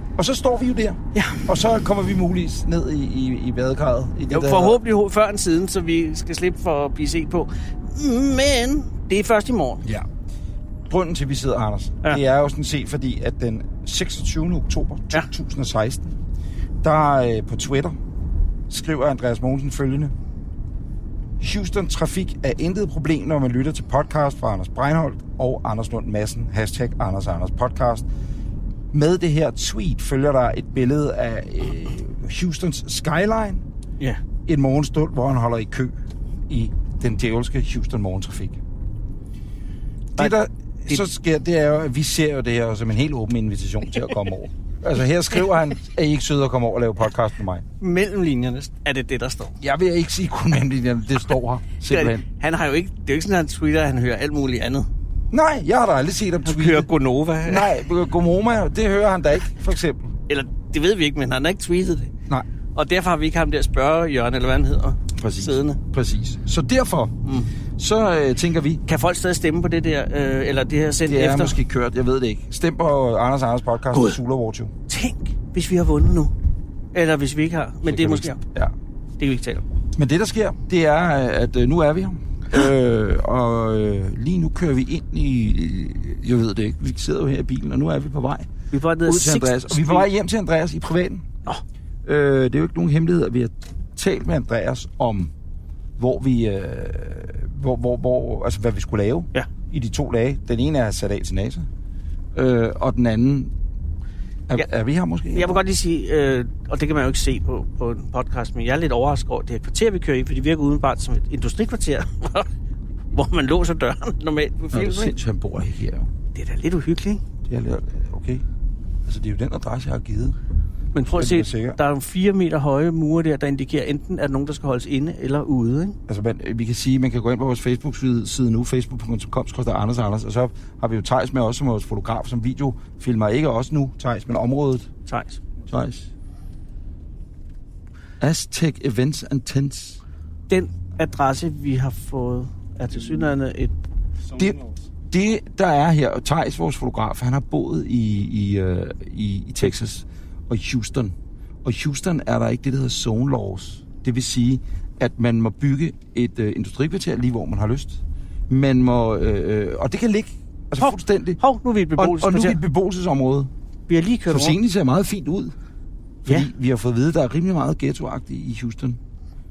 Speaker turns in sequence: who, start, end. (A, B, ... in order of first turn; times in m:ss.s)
0:00.2-0:04.8 A
0:01.1-0:01.5 B
0:04.3-0:09.8 B
0:10.9-0:16.1 A
0:16.8-0:18.0 A
0:18.7-0:20.1 A
0:21.4-0:28.0 A
0:28.9-0:33.6 A
0:34.4-0:36.0 A
0:36.5-0:38.6 A
0:40.2-0:47.6 A
0:47.8-0:49.5 B
0:49.6-0:52.2 A
0:51.9-0:54.9 B
0:55.3-0:56.9 A
0:56.4-0:57.7 B
0:57.4-1:00.1 A
1:00.3-1:02.1 B
1:02.7-1:05.8 B
1:05.1-1:07.1 A
1:07.2-1:07.5 B
1:07.8-1:08.8 A
1:08.9-1:11.6 B
1:11.1-1:14.7 A
1:13.9-1:14.2 B
1:14.9-1:16.3 B
1:16.9-1:18.4 B
1:17.8-1:18.7 A
1:19.2-1:19.7 B
1:19.9-1:28.5 A
1:28.7-1:30.1 B
1:29.0-1:31.2 A
1:32.0-1:35.3 A
1:36.0-1:41.7 A
1:42.3-1:43.5 A
1:44.5-1:45.6 A
1:45.3-1:52.5 B
1:53.1-1:55.2 B
1:54.7-1:56.1 A
1:56.3-1:57.2 B
1:57.4-1:58.4 A
1:59.0-2:00.4 A
2:00.9-2:06.0 B
2:01.1-2:01.8 A
2:06.1-2:14.9 A
2:15.1-2:15.4 B
2:15.7-2:16.1 A
2:18.2-2:20.0 A
2:20.5-2:23.7 B
2:24.3-2:41.4 A
2:40.8-2:42.6 B
2:42.0-2:43.5 A
2:43.9-2:44.6 B
2:44.3-2:45.5 A
2:46.2-2:49.0 A